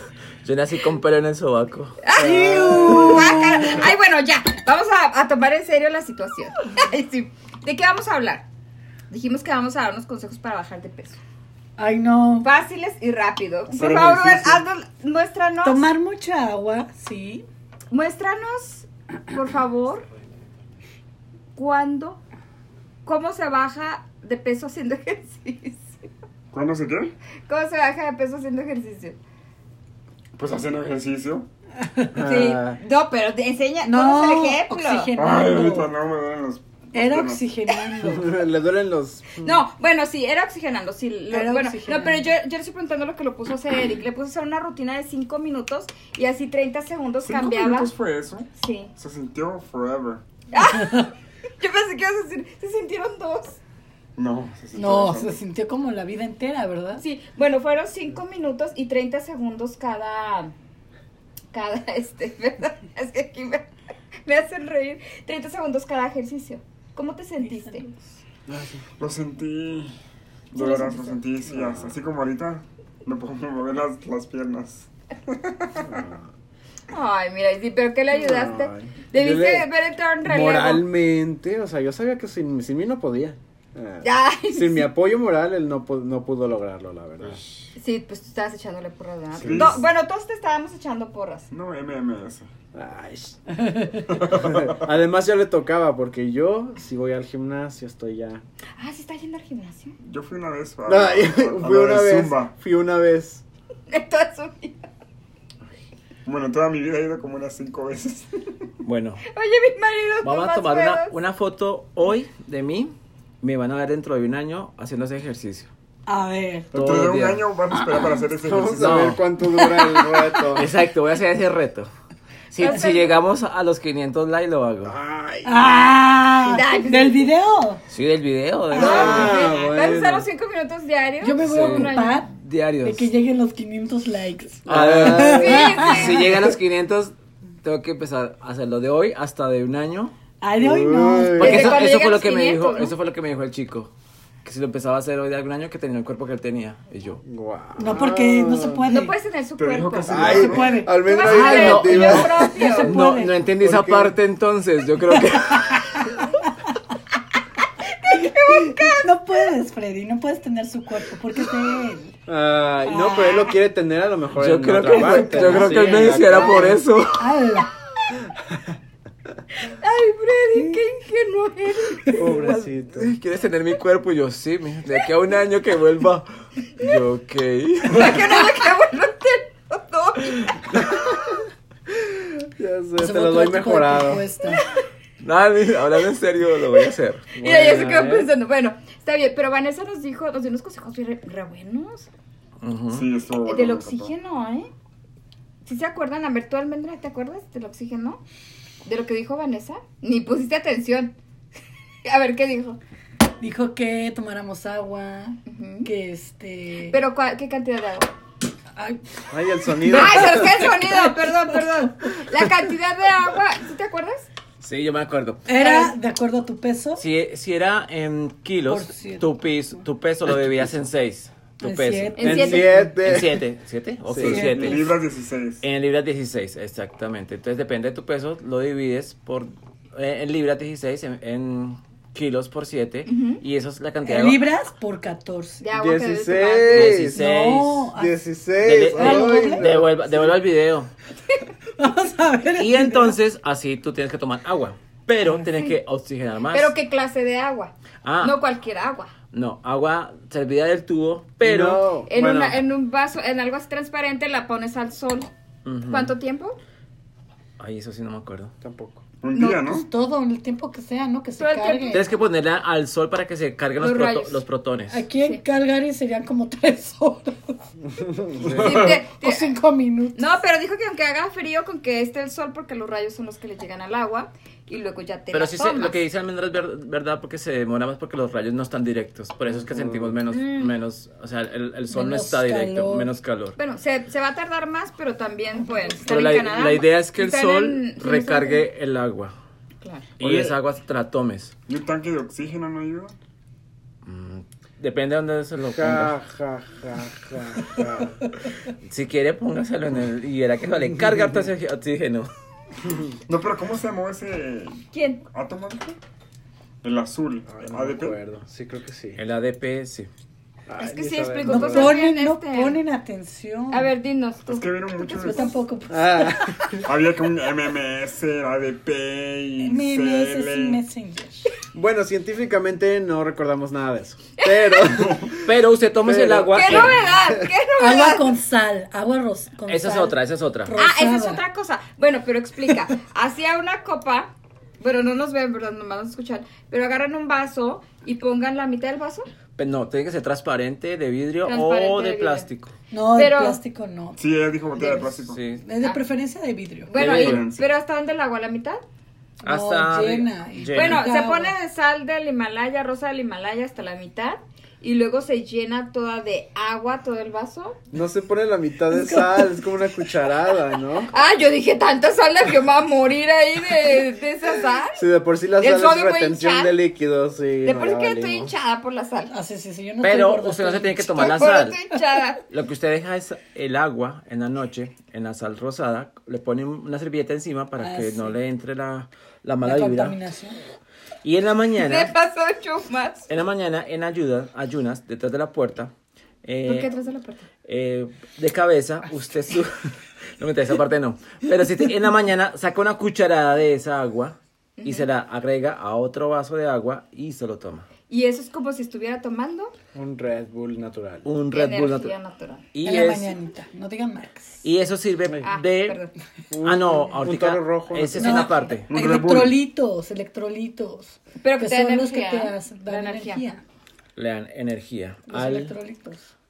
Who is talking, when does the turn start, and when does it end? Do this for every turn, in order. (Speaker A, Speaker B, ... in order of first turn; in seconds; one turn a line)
Speaker A: 0.4-2.0
Speaker B: 2.0-8.5
Speaker C: 2.2-3.8
Speaker D: 2.2-3.9
Speaker B: 9.1-11.2
Speaker D: 11.8-12.5
Speaker B: 12.4-15.8
Speaker E: 13.7-14.7
Speaker D: 15.6-17.5
Speaker B: 17.9-20.1
Speaker B: 21.6-22.2
Speaker B: 23.1-26.0
Speaker E: 26.5-27.1
Speaker B: 27.5-29.2
Speaker E: 30.4-31.5
Speaker D: 31.8-32.2
Speaker C: 32.1-32.8
Speaker B: 32.2-35.1
Speaker D: 33.8-35.9
Speaker E: 35.2-37.5
Speaker D: 36.9-38.4
Speaker C: 38.0-39.6
Speaker B: 39.4-47.9
Speaker D: 41.3-42.3
Speaker E: 47.2-50.2
Speaker B: 48.6-48.9
Speaker B: 50.5-53.6
Speaker D: 50.7-51.1
Speaker E: 54.2-55.4
Speaker D: 54.8-57.0
Speaker B: 57.0-60.5
Speaker B: 61.5-63.7
Speaker B: 64.3-67.8
Speaker D: 67.4-68.0
Speaker C: 68.5-68.8
Speaker E: 69.0-69.9
Speaker E: 70.5-76.1
Speaker B: 70.6-71.2
Speaker C: 71.5-71.9
Speaker C: 75.8-76.2
Speaker B: 76.9-80.8
Speaker C: 78.1-79.7
Speaker C: 80.2-87.4
Speaker B: 84.0-84.9
Speaker E: 87.2-87.7
Speaker B: 87.8-91.5
Speaker E: 89.4-89.8
Speaker C: 89.4-89.8
Speaker E: 91.5-92.5
Speaker C: 92.7-93.4
Speaker D: 93.5-94.1
Speaker E: 94.1-94.8
Speaker C: 94.3-98.4
Speaker B: 98.8-100.0
Speaker E: 100.0-102.5
Speaker C: 100.9-103.4
Speaker B: 103.9-104.9
Speaker E: 106.2-108.7
Speaker A: 108.8-109.2
Speaker B: 109.3-111.2
Speaker A: 110.2-115.7
Speaker D: 116.1-116.7
Speaker A: 116.7-117.5
Speaker E: 116.7-119.1
Speaker C: 118.4-120.7
Speaker A: 118.8-119.2
Speaker D: 119.4-120.6
Speaker A: 120.5-121.9
Speaker A: 122.5-125.0
Speaker B: 122.6-123.2
Speaker D: 122.7-123.0
Speaker C: 124.8-125.9
Speaker D: 125.4-127.8
Speaker B: 126.5-127.3
Speaker A: 127.9-129.5
Speaker D: 128.7-129.3
Speaker C: 128.7-130.3
Speaker B: 128.7-132.2
Speaker D: 131.2-136.2
Speaker A: 131.4-133.1
Speaker C: 134.7-135.7
Speaker A: 134.7-140.1
Speaker B: 135.3-136.4
Speaker D: 140.4-141.7
Speaker C: 140.6-141.8
Speaker A: 141.4-143.9
Speaker B: 141.4-142.9
Speaker A: 144.4-147.2
Speaker C: 147.2-148.9
Speaker D: 147.8-149.2
Speaker B: 148.9-152.9
Speaker E: 149.6-150.9
Speaker C: 150.1-152.4
Speaker D: 150.3-153.4
Speaker A: 151.3-156.1
Speaker C: 153.6-154.2
Speaker D: 155.1-156.8
Speaker B: 158.0-159.1
Speaker D: 158.5-162.2
Speaker C: 162.3-166.8
Speaker D: 162.8-163.6
Speaker A: 164.4-167.3
Speaker D: 164.8-167.7
Speaker B: 169.7-172.4
Speaker C: 172.1-173.2
Speaker A: 172.4-178.6
Speaker B: 177.9-181.2
Speaker C: 180.7-181.3
Speaker C: 181.9-184.2
Speaker D: 183.0-184.6
Speaker B: 184.6-184.8
Speaker A: 185.2-187.4
Speaker C: 187.4-188.3
Speaker B: 187.4-192.1
Speaker A: 192.6-193.1
Speaker E: 192.9-194.1
Speaker B: 193.5-194.7
Speaker B: 195.6-198.2
Speaker B: 198.8-201.1
Speaker B: 202.1-202.8
Speaker D: 203.4-207.0
Speaker B: 205.5-205.9
Speaker B: 206.9-208.1
Speaker D: 208.8-209.0
Speaker C: 209.3-210.7
Speaker D: 209.6-211.9
Speaker B: 209.8-214.3
Speaker A: 214.6-215.5
Speaker D: 215.5-217.0
Speaker B: 215.6-215.9
Speaker A: 217.0-222.3
Speaker D: 218.7-219.8
Speaker D: 221.6-222.9
Speaker B: 222.2-222.8
Speaker C: 222.2-223.4
Speaker A: 223.0-225.0
Speaker C: 224.1-224.4
Speaker D: 224.2-224.8
Speaker E: 224.2-225.6
Speaker A: 225.6-234.6
Speaker B: 233.1-233.4
Speaker D: 234.0-235.7
Speaker B: 235.6-237.0
Speaker C: 235.7-237.2
Speaker A: 236.7-237.9
Speaker D: 237.2-238.2
Speaker C: 237.9-240.4
Speaker A: 238.6-240.9
Speaker D: 238.9-239.7
Speaker D: 241.8-243.2
Speaker A: 242.6-246.7
Speaker B: 246.5-249.1
Speaker A: 248.0-248.4
Speaker A: 249.3-251.8
Speaker C: 251.4-252.6
Speaker B: 252.1-255.3
Speaker A: 255.7-256.1
Speaker B: 255.9-256.6
Speaker A: 257.6-258.5
Speaker C: 258.6-259.0
Speaker E: 259.2-259.9
Speaker B: 259.3-259.7
Speaker D: 259.6-262.1
Speaker B: 261.4-262.1
Speaker A: 261.9-265.1
Speaker B: 263.8-264.4
Speaker D: 264.9-267.6
Speaker C: 267.9-268.8
Speaker E: 268.4-269.0
Speaker B: 268.6-269.6
Speaker D: 268.9-270.4
Speaker B: 270.2-276.0
Speaker A: 275.3-283.6
Speaker C: 279.6-280.2
Speaker B: 280.3-280.8
Speaker D: 281.9-283.1
Speaker B: 283.6-288.6
Speaker A: 286.1-289.3
Speaker B: 289.8-290.1
Speaker A: 290.2-291.5
Speaker E: 290.2-290.5
Speaker E: 291.7-293.1
Speaker A: 294.1-296.1
Speaker C: 295.7-298.2
Speaker A: 298.9-302.3
Speaker E: 303.3-306.0
Speaker B: 304.9-305.2
Speaker E: 306.8-308.2
Speaker C: 307.5-309.2
Speaker A: 309.2-310.1
Speaker C: 310.7-312.0
Speaker B: 310.8-312.8
Speaker D: 311.5-313.9
Speaker B: 313.7-315.5
Speaker E: 314.5-315.6
Speaker D: 315.2-316.8
Speaker C: 315.9-316.9
Speaker E: 316.8-320.8
Speaker D: 319.6-321.5
Speaker C: 321.7-325.5
Speaker B: 324.4-325.1
Speaker E: 325.1-325.4
Speaker A: 325.4-327.1
Speaker C: 326.1-327.5
Speaker B: 326.5-328.3
Speaker D: 327.8-331.4
Speaker A: 329.7-330.7
Speaker B: 330.8-339.3
Speaker A: 339.6-342.7
Speaker B: 341.4-342.5
Speaker D: 342.9-344.2
Speaker B: 343.1-343.6
Speaker E: 344.2-345.4
Speaker A: 345.3-345.6
Speaker D: 345.6-346.9
Speaker B: 346.9-348.8
Speaker A: 346.9-347.4
Speaker E: 346.9-347.7
Speaker D: 349.4-351.6
Speaker A: 349.4-351.1
Speaker B: 350.7-357.8
Speaker C: 357.9-361.1
Speaker D: 358.9-359.6
Speaker B: 361.1-365.0
Speaker C: 364.9-368.5
Speaker B: 365.6-366.8
Speaker B: 367.6-369.3
Speaker D: 369.3-371.3
Speaker A: 370.0-371.8
Speaker B: 371.1-372.4
Speaker A: 372.5-380.2
Speaker D: 377.8-378.4
Speaker D: 379.6-380.6
Speaker A: 381.2-382.1
Speaker B: 381.8-383.3
Speaker A: 383.3-385.9
Speaker A: 386.4-386.9
Speaker B: 386.7-387.5
Speaker A: 387.7-397.9
Speaker B: 394.8-395.1
Speaker B: 398.1-399.8
Speaker C: 399.9-401.3
Speaker A: 401.2-402.1
Speaker B: 401.5-402.6
Speaker A: 402.7-403.3
Speaker D: 402.8-404.6
Speaker A: 404.6-406.0
Speaker B: 405.4-406.1
Speaker C: 406.5-408.5
Speaker A: 406.6-408.9
Speaker D: 408.2-413.6
Speaker E: 408.9-409.6
Speaker B: 411.4-413.4
Speaker A: 414.2-415.7
Speaker D: 415.3-416.3